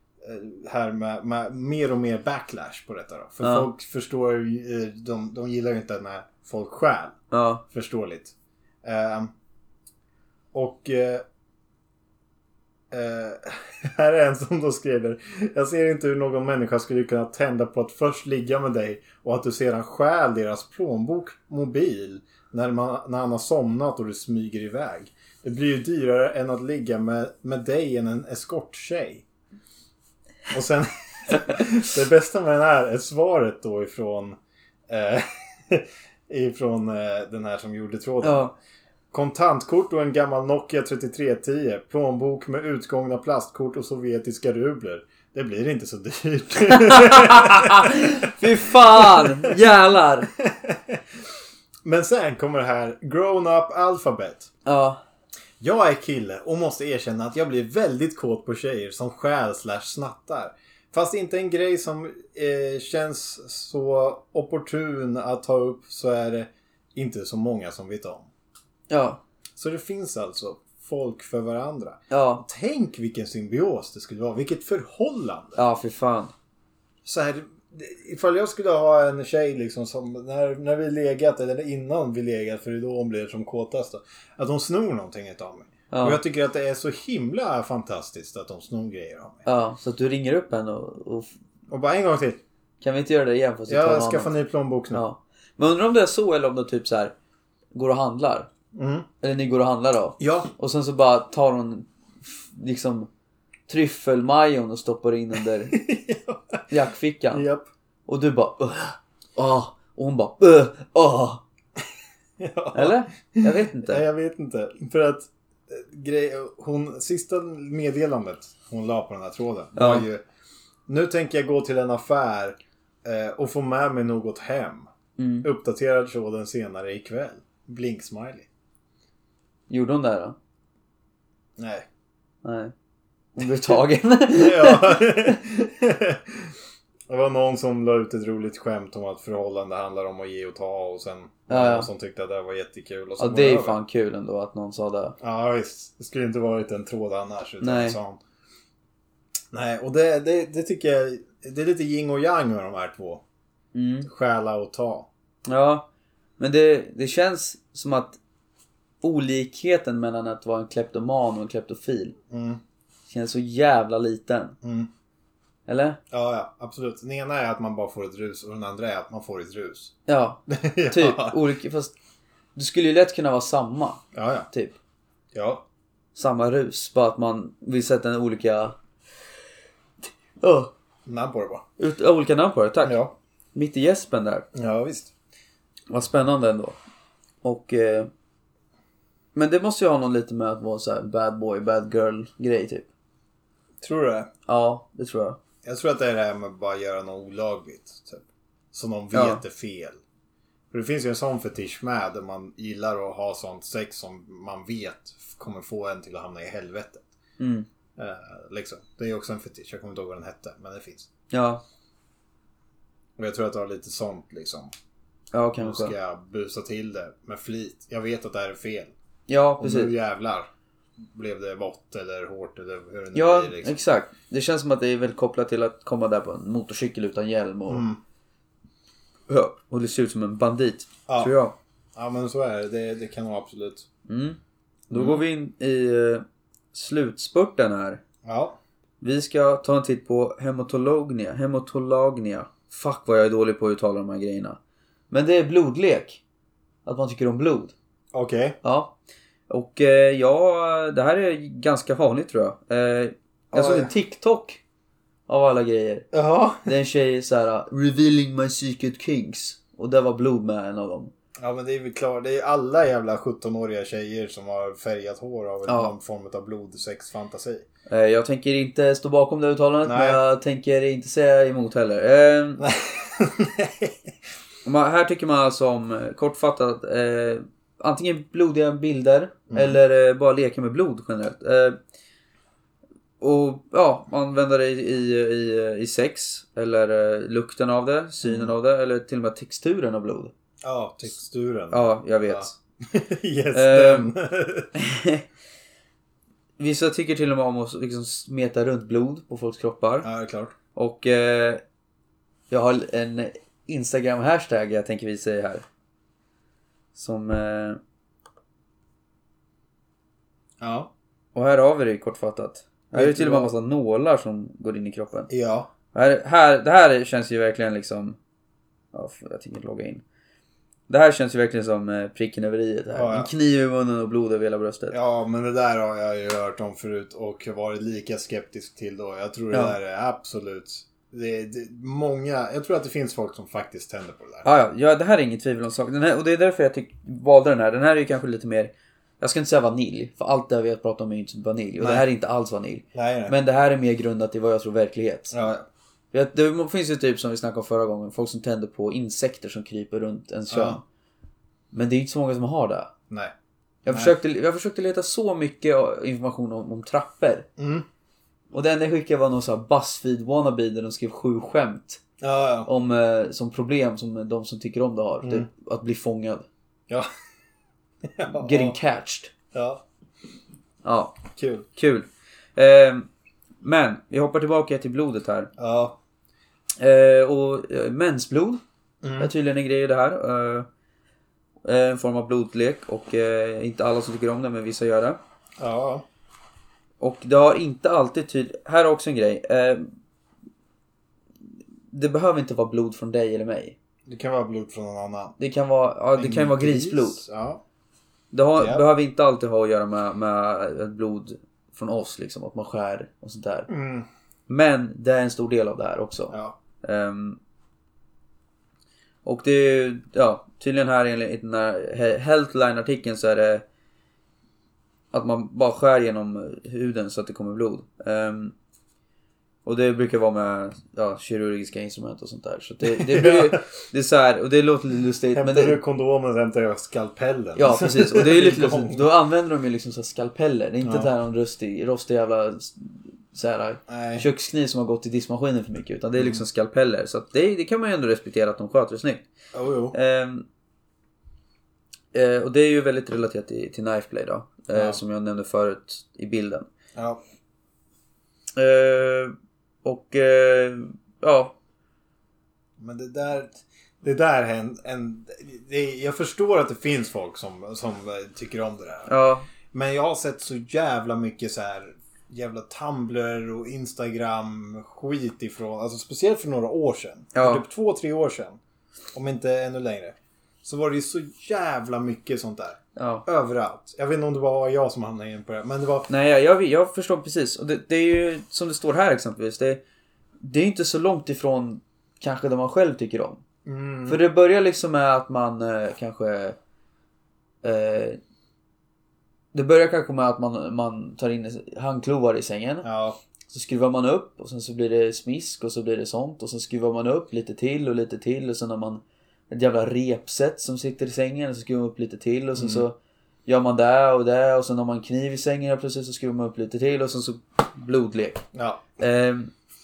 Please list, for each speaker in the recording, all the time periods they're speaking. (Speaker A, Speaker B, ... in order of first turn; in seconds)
Speaker A: 0.2-7.2, 7.7-9.3, 10.5-11.2, 12.9-29.2, 30.5-34.4, 34.9-38.5, 39.1-49.5, 50.4-51.0, 51.8-54.5, 55.6-68.3, 69.6-75.6, 77.0-89.5, 91.7-92.4, 93.7-95.0, 98.7-99.1, 100.2-100.5, 105.7-106.6, 107.3-107.7, 112.4-120.2, 120.9-124.9, 125.4-128.5, 131.6-131.8, 134.3-136.5, 137.1-143.8, 145.2-148.2, 149.5-153.2, 154.0-155.1, 162.3-162.6, 164.6-164.9, 166.1-169.9, 170.5-171.4, 174.1-174.5, 175.3-175.6, 181.1-181.6, 182.8-183.1, 184.5-185.1, 193.8-194.3, 195.6-200.0, 200.7-207.0, 208.0-211.1, 213.2-214.7, 215.6-218.9, 219.6-220.5, 221.1-223.8, 227.7-228.0, 231.1-231.3, 231.9-233.9, 234.9-235.2, 238.2-238.6, 248.1-248.6, 253.5-253.9, 256.1-256.7, 261.4-267.6, 269.8-270.2, 272.6-273.9, 279.5-279.8, 288.2-288.5, 290.6-294.7, 300.0-300.5, 310.6-310.9, 312.9-313.5, 315.3-315.7, 322.9-323.3, 324.9-334.4, 341.8-342.0, 342.9-343.3, 345.3-345.6, 350.5-350.8, 353.9-354.1, 357.6-357.8, 362.2-362.7, 368.1-368.8, 369.5-369.8, 371.3-371.6, 375.6-376.0, 379.0-379.3, 385.6-386.0, 394.1-395.4, 396.1-397.6, 398.6-398.8, 403.7-404.1, 406.3-406.6, 422.8-423.7, 425.3-429.1, 430.8-431.1, 433.9-434.3, 436.2-436.4, 439.5-439.9, 444.7-445.0, 446.9-447.2, 452.8-459.1, 459.7-468.6, 469.1-476.1, 483.6-484.2, 492.8-493.2, 502.6-502.8, 508.5-509.0
Speaker B: 3.4-3.7, 7.3-7.6, 38.2-38.5, 46.6-50.3, 54.6-55.0, 68.9-69.2, 72.1-72.4, 75.5-76.3, 85.9-86.2, 89.5-91.3, 92.8-94.3, 94.9-97.1, 97.7-98.5, 99.2-103.1, 103.7-105.7, 106.7-107.4, 108.0-111.4, 112.7-114.0, 119.8-120.0, 125.2-125.5, 129.7-130.3, 132.4-132.7, 133.3-135.4, 141.5-141.9, 143.2-145.2, 147.6-148.0, 153.7-154.1, 155.4-155.8, 156.4-158.2, 159.0-162.2, 163.1-164.6, 165.7-166.0, 170.1-171.9, 172.5-174.8, 176.1-178.8, 180.4-180.7, 181.8-182.9, 183.5-184.5, 185.9-186.8, 187.4-188.1, 189.3-192.9, 194.5-195.4, 199.1-199.4, 207.4-207.7, 211.3-211.6, 215.3-215.9, 219.3-219.9, 223.1-227.8, 229.3-231.6, 234.1-238.0, 239.0-244.6, 245.1-246.2, 246.8-247.7, 248.6-248.9, 249.5-254.6, 255.3-256.1, 256.6-261.1, 265.7-265.9, 267.9-272.6, 274.6-281.8, 283.2-290.3, 291.7-292.5, 293.5-294.1, 294.7-295.2, 296.6-300.1, 300.7-301.6, 302.5-305.6, 306.9-307.8, 311.3-315.3, 315.9-318.2, 318.9-320.0, 320.9-324.9, 334.4-345.3, 346.1-350.8, 351.7-352.9, 353.8-357.5, 358.5-362.0, 362.6-366.5, 368.3-369.3, 370.8-371.2, 371.8-373.1, 373.6-375.5, 376.8-378.6, 379.2-380.7, 381.6-385.2, 387.0-389.9, 391.9-393.8, 395.4-397.2, 398.3-403.7, 404.5-407.4, 409.2-413.6, 415.1-418.5, 419.6-425.8, 427.6-439.2, 439.9-440.4, 442.1-446.7, 448.6-449.3, 449.8-451.5, 459.1-459.4, 467.3-467.6, 472.9-473.2, 476.1-479.8, 480.4-483.4, 484.1-486.6, 487.6-488.2, 489.5-492.9, 493.5-508.4, 509.0-509.5